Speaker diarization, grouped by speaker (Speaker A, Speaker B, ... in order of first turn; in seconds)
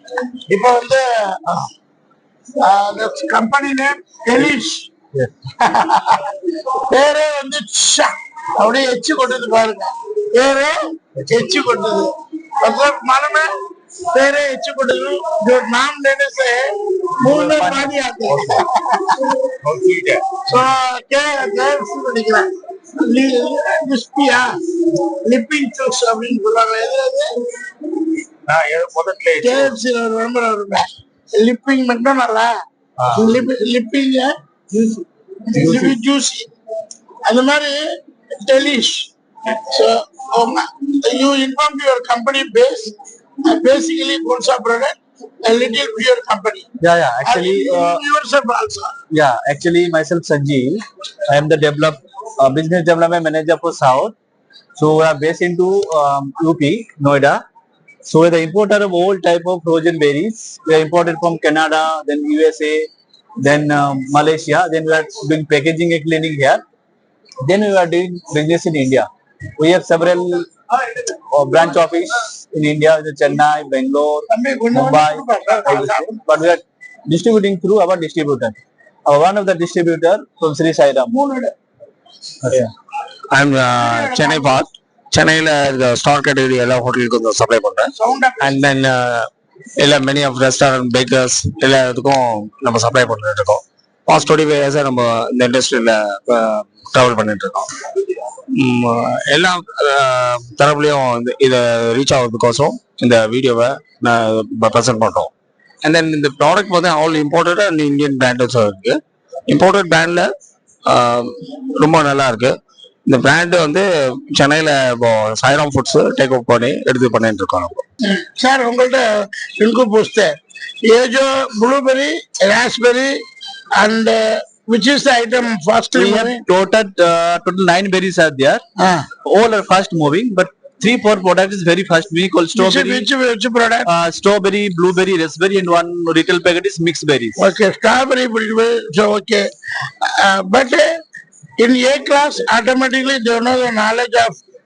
Speaker A: 0.5-1.6, 2.6-4.9, 5.6-6.3, 6.9-13.5, 14.1-19.3, 20.5-24.5, 25.2-27.3, 29.4-32.5, 33.1-36.5, 37.2-37.8, 38.3-46.7, 47.2-48.9, 74.3-76.1, 81.1-81.5, 83.8-84.6, 88.0-88.6, 118.0-119.1, 119.6-123.2, 123.8-126.4, 128.8-129.1, 132.5-133.9, 137.4-139.5, 140.0-140.9, 141.6-144.4
Speaker B: 17.2-18.5, 19.6-20.4, 28.5-29.7, 33.0-33.3, 83.3-97.7, 98.5-105.3, 105.8-110.3, 110.8-112.5, 113.0-117.8
Speaker C: 46.8-48.0, 49.1-54.1, 54.8-57.4, 58.0-62.9, 63.4-66.6, 67.4-69.1, 69.6-70.5, 71.2-81.1, 82.4-82.7, 125.9-128.6, 129.2-133.1, 133.8-137.4